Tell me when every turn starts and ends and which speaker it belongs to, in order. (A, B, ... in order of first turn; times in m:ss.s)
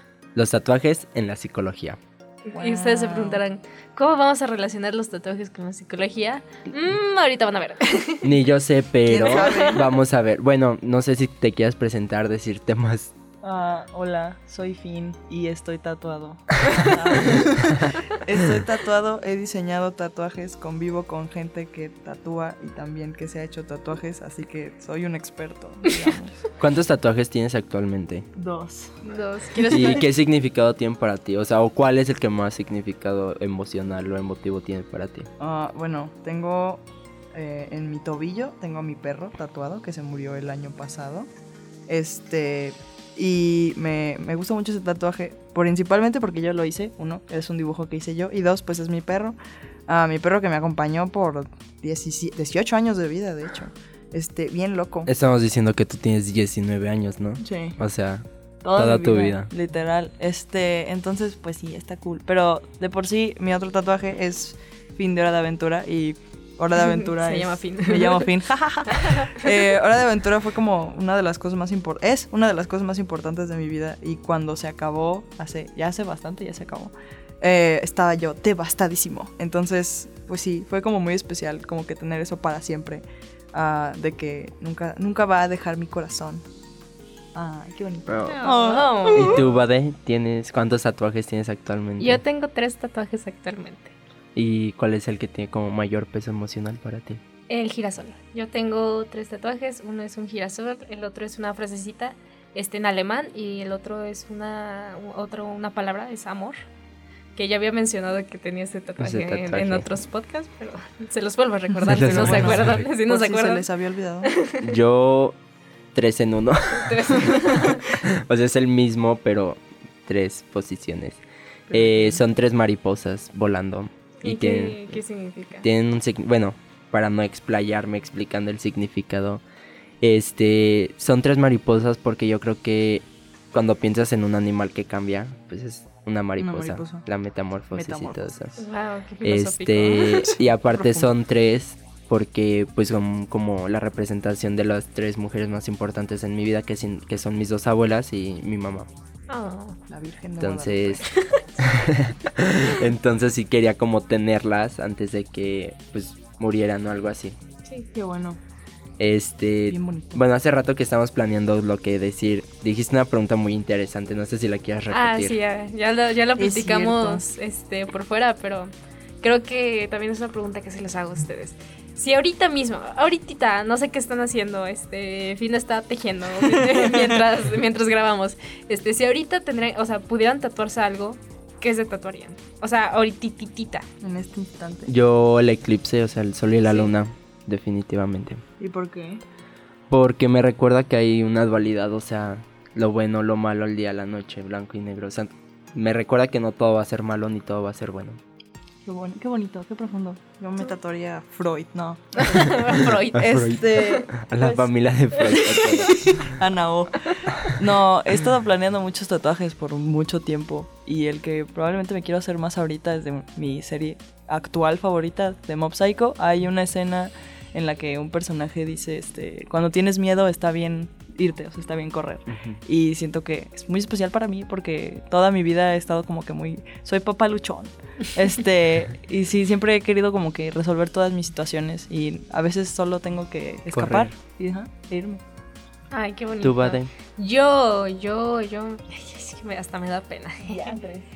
0:00.4-0:02.0 A
0:02.5-0:08.4 B
0:02.5-0:03.4 C
0:08.2-0:13.2 A
0:09.1-0:09.9 C
0:09.3-0:09.8 B
0:13.4-0:26.4 C
0:26.6-0:28.3 A
0:28.4-0:29.0 C
0:29.0-0:30.1 B
0:29.7-0:35.3 A
0:35.4-0:41.3 C
0:41.9-0:49.4 C
0:49.9-0:55.1 C
0:55.1-0:59.5 A
0:57.4-0:57.8 C
0:58.6-1:26.4 C
1:06.8-1:08.3 B
1:08.9-1:09.5 B
1:27.4-1:29.5 C
1:28.3-1:29.4 B
1:29.1-1:32.2 A
1:32.0-1:33.9 B
1:34.4-1:37.2 A
1:37.5-1:46.6 B
1:47.4-1:53.7 B
1:49.0-1:49.9 A
1:51.8-1:52.8 A
1:51.9-1:54.3 C
1:54.2-1:54.8 B
1:54.6-1:55.4 A
1:55.9-1:57.2 A
1:56.8-1:57.9 B
1:57.9-2:05.0 A
2:01.7-2:02.2 C
2:04.2-2:05.7 B
2:05.6-2:09.4 A
2:10.0-2:18.6 A
2:16.4-2:17.1 C
2:17.7-2:18.3 C
2:18.6-2:20.4 B
2:19.2-2:28.9 A
2:20.7-2:21.2 C
2:29.3-2:29.8 B
2:29.9-2:31.1 C
2:30.4-2:31.0 A
2:31.6-2:37.4 A
2:37.9-2:38.4 C
2:39.0-2:45.4 A
2:39.7-2:40.2 C
2:44.9-3:03.9 B
2:46.4-2:47.3 C
2:56.6-2:57.0 C
3:04.0-3:04.9 C
3:04.9-3:08.4 A
3:06.6-3:06.9 B
3:08.6-3:09.2 C
3:09.9-3:18.2 A
3:18.8-3:22.5 C
3:22.2-3:24.1 B
3:23.2-3:26.2 A
3:23.2-3:24.7 C
3:25.2-3:25.8 B
3:25.3-3:55.2 C
3:42.3-3:42.6 A
3:53.7-3:54.2 A
3:55.9-4:00.8 B
3:56.4-3:56.9 A
4:00.4-4:01.1 C